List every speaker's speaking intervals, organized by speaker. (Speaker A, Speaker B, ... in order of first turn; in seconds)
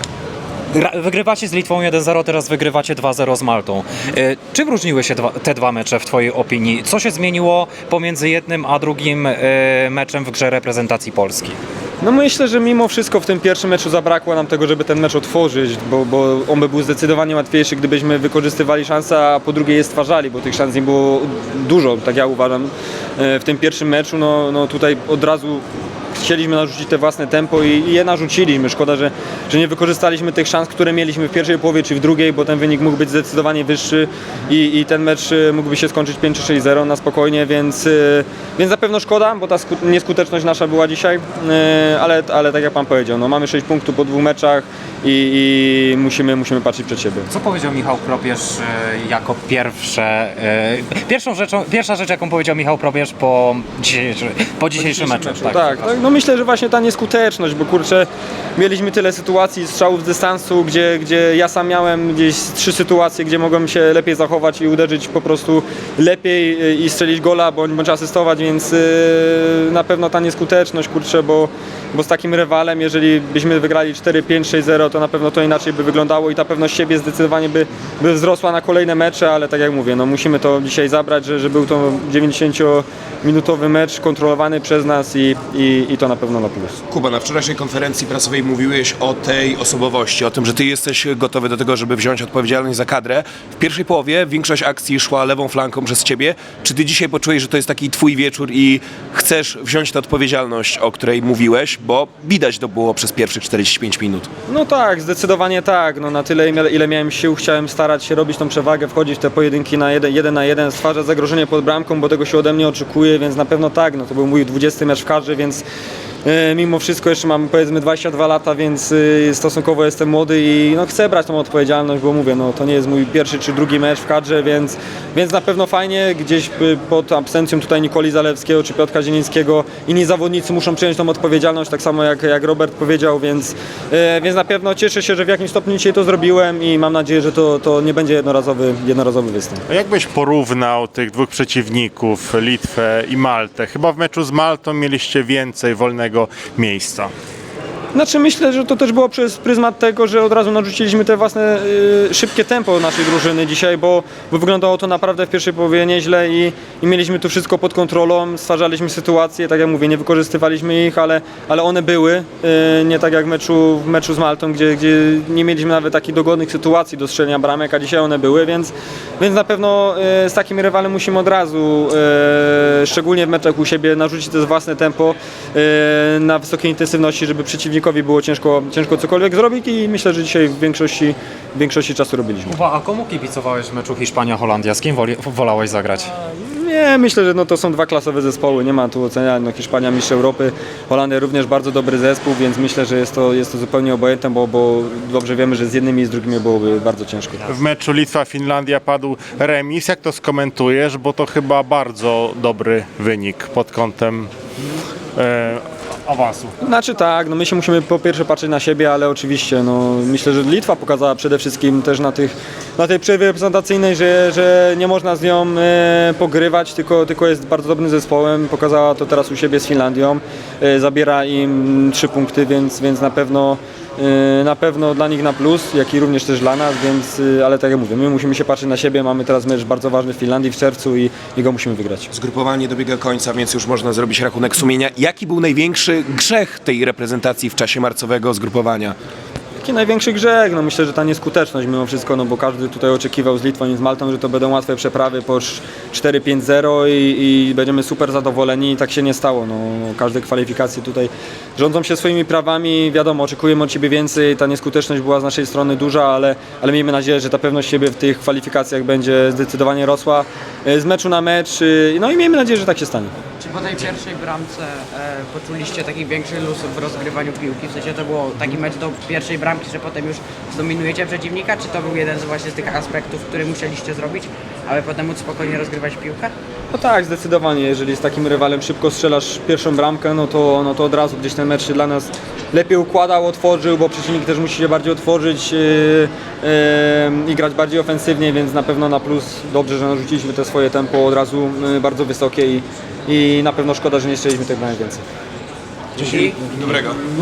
Speaker A: 0.7-11.6, 47.3-55.9, 182.5-186.1
Speaker B: 12.0-25.6, 26.1-47.3, 55.1-86.8, 104.5-115.6, 116.2-139.6, 147.9-182.6, 186.2-197.5, 206.6-232.1, 239.6-263.1, 276.7-295.0
Speaker C: 86.9-104.3, 232.1-238.9, 296.0-297.0
Speaker D: 139.7-147.1, 197.5-204.3, 205.2-206.5
Speaker E: 263.4-276.3, 296.0-296.3